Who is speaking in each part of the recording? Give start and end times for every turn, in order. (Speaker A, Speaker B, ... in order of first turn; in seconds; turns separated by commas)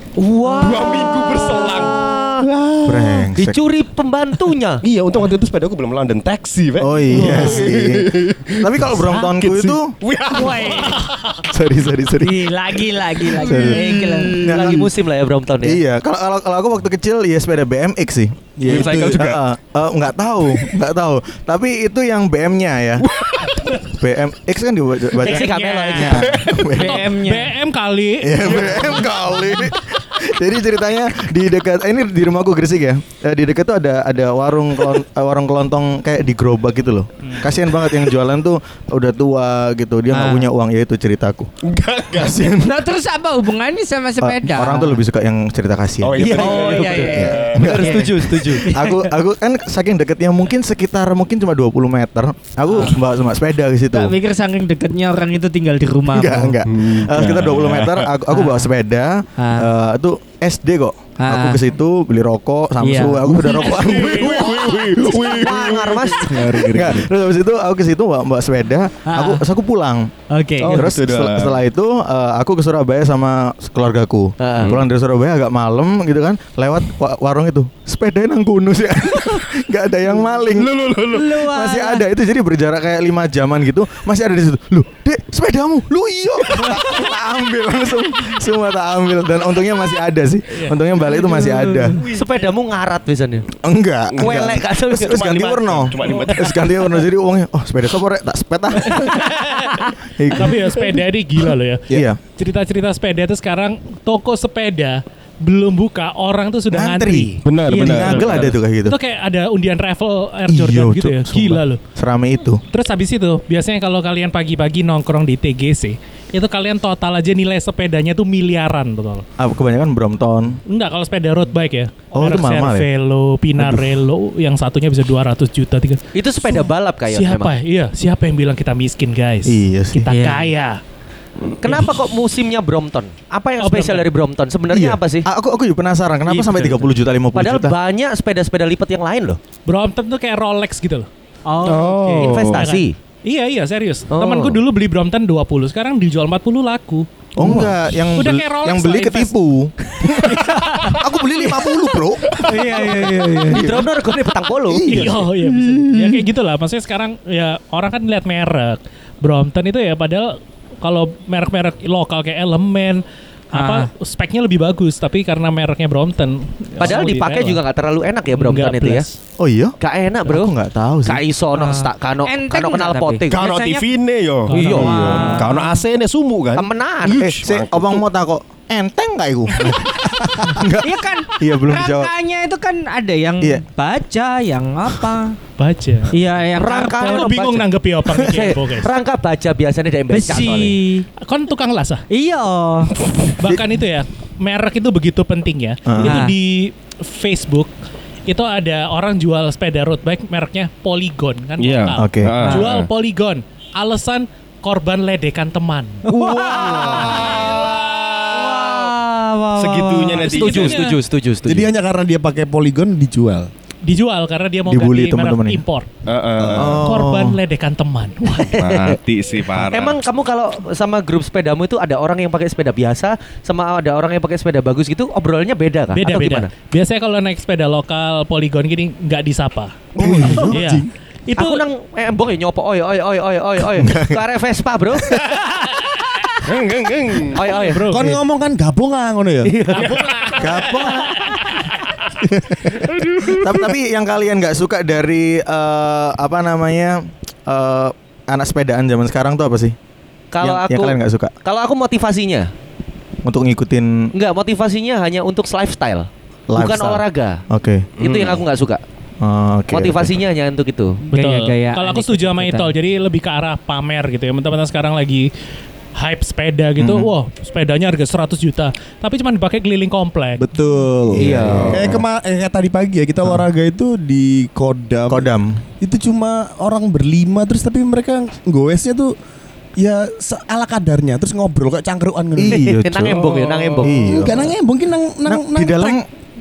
Speaker A: 0.2-2.5, Speaker B: 0.5-3.2, Speaker C: 2.8-3.6, Speaker A: 3.3-4.8, Speaker B: 4.8-11.1, Speaker C: 6.8-9.9, Speaker D: 10.3-11.1, Speaker C: 11.4-12.5, Speaker D: 12.2-14.6, Speaker C: 13.2-14.9, Speaker A: 14.4-15.8, Speaker C: 15.6-23.1, Speaker E: 18.6-19.3, Speaker B: 18.6-19.4, Speaker B: 23.1-23.7, Speaker C: 23.8-27.1, Speaker A: 25.2-26.2, Speaker F: 25.2-29.6, Speaker B: 26.3-26.5, Speaker D: 26.5-27.5, Speaker C: 28.2-41.5, Speaker B: 28.5-28.8, Speaker D: 40.1-40.5, Speaker B: 41.6-42.5, Speaker C: 42.1-42.8, Speaker D: 42.6-45.0, Speaker C: 44.2-54.1, Speaker B: 46.0-47.8, Speaker A: 46.2-48.7, Speaker D: 46.3-49.1, Speaker D: 52.7-53.0, Speaker D: 53.9-56.6, Speaker C: 56.1-65.5, Speaker B: 56.7-58.1, Speaker D: 58.3-58.7, Speaker D: 59.4-59.7, Speaker D: 61.2-61.6, Speaker D: 62.8-63.4, Speaker B: 63.5-66.4, Speaker F: 63.6-64.3, Speaker A: 65.4-66.3, Speaker E: 66.2-67.1, Speaker C: 66.4-70.1, Speaker D: 69.1-69.4, Speaker D: 70.3-70.9, Speaker B: 70.6-71.6, Speaker C: 70.7-80.8, Speaker A: 74.4-74.7, Speaker B: 80.5-81.4, Speaker D: 81.1-82.0, Speaker C: 81.4-92.0, Speaker F: 90.5-90.8, Speaker D: 91.1-92.0, Speaker A: 92.0-93.5, Speaker C: 93.6-99.5, Speaker B: 94.1-94.5, Speaker A: 94.2-96.1, Speaker B: 95.2-96.8, Speaker F: 99.5-99.8, Speaker C: 100.0-100.9, Speaker F: 100.3-111.8, Speaker C: 101.9-102.2, Speaker C: 106.7-109.0, Speaker B: 107.4-108.5, Speaker D: 107.7-108.2, Speaker C: 110.5-112.6, Speaker F: 112.7-119.2, Speaker C: 119.4-120.6, Speaker F: 120.7-130.8, Speaker C: 122.1-122.8, Speaker C: 123.6-123.9, Speaker A: 126.1-127.5, Speaker C: 129.5-130.1, Speaker D: 130.1-130.5, Speaker A: 131.6-135.2, Speaker F: 133.6-134.1, Speaker C: 134.7-137.7, Speaker D: 136.3-136.9, Speaker A: 137.3-139.4, Speaker F: 139.7-141.1, Speaker D: 141.5-142.0, Speaker B: 141.6-142.6, Speaker F: 141.7-147.1, Speaker A: 142.2-142.9, Speaker A: 144.1-144.6, Speaker C: 147.4-153.9, Speaker F: 148.1-149.3, Speaker D: 152.3-153.8, Speaker A: 152.7-155.0, Speaker C: 154.7-155.9, Speaker F: 154.9-167.6, Speaker D: 163.5-163.9, Speaker A: 166.8-169.1, Speaker F: 168.3-169.2, Speaker C: 169.4-171.2, Speaker A: 169.8-170.5, Speaker A: 171.0-173.4, Speaker D: 171.5-173.9, Speaker B: 173.3-178.0, Speaker D: 174.5-175.8, Speaker F: 174.5-175.5, Speaker A: 174.5-175.3, Speaker A: 176.6-177.3, Speaker C: 177.1-182.1, Speaker D: 180.6-185.4, Speaker F: 185.6-186.1, Speaker D: 186.1-187.3, Speaker A: 186.6-190.8, Speaker F: 187.0-188.9, Speaker D: 190.1-191.0, Speaker F: 191.2-192.0, Speaker D: 192.1-193.0, Speaker F: 193.4-197.7, Speaker C: 195.9-196.2, Speaker D: 196.0-196.3, Speaker F: 198.2-206.0, Speaker B: 201.6-202.9, Speaker C: 202.0-202.5, Speaker D: 206.1-210.4, Speaker B: 206.2-208.9, Speaker E: 206.2-207.3, Speaker B: 209.6-210.8, Speaker F: 210.2-211.0, Speaker A: 210.3-211.7, Speaker E: 211.5-213.5, Speaker F: 213.8-215.9, Speaker C: 214.7-215.6, Speaker B: 216.1-216.8, Speaker E: 216.4-216.9, Speaker C: 216.5-217.3, Speaker F: 216.8-218.5, Speaker A: 218.3-219.0, Speaker B: 218.6-220.0, Speaker A: 219.6-226.5, Speaker F: 225.9-230.8, Speaker E: 229.9-230.9, Speaker C: 230.0-230.5, Speaker A: 231.3-235.7, Speaker C: 233.8-234.2, Speaker B: 236.4-237.4, Speaker A: 237.3-237.9, Speaker F: 237.6-238.2, Speaker E: 237.9-239.6, Speaker A: 239.4-240.3, Speaker F: 239.7-241.4, Speaker C: 240.4-241.4, Speaker E: 242.4-242.7, Speaker B: 243.0-243.4, Speaker C: 243.2-249.7, Speaker A: 250.3-252.5, Speaker C: 250.4-251.3, Speaker C: 253.2-254.1, Speaker A: 254.1-257.4, Speaker C: 256.5-257.9, Speaker B: 258.0-258.4, Speaker A: 258.0-258.8, Speaker C: 259.2-260.2, Speaker A: 259.7-261.0, Speaker D: 261.1-262.7, Speaker F: 261.1-265.3, Speaker F: 265.9-270.4, Speaker C: 266.8-267.1, Speaker E: 270.4-279.1, Speaker C: 271.1-272.0, Speaker A: 271.2-271.7, Speaker B: 271.5-271.9, Speaker C: 275.1-275.6, Speaker E: 279.8-282.8, Speaker C: 282.4-283.2, Speaker A: 282.5-284.1, Speaker B: 283.2-283.8, Speaker C: 283.8-284.5, Speaker E: 284.0-286.0, Speaker C: 285.2-286.1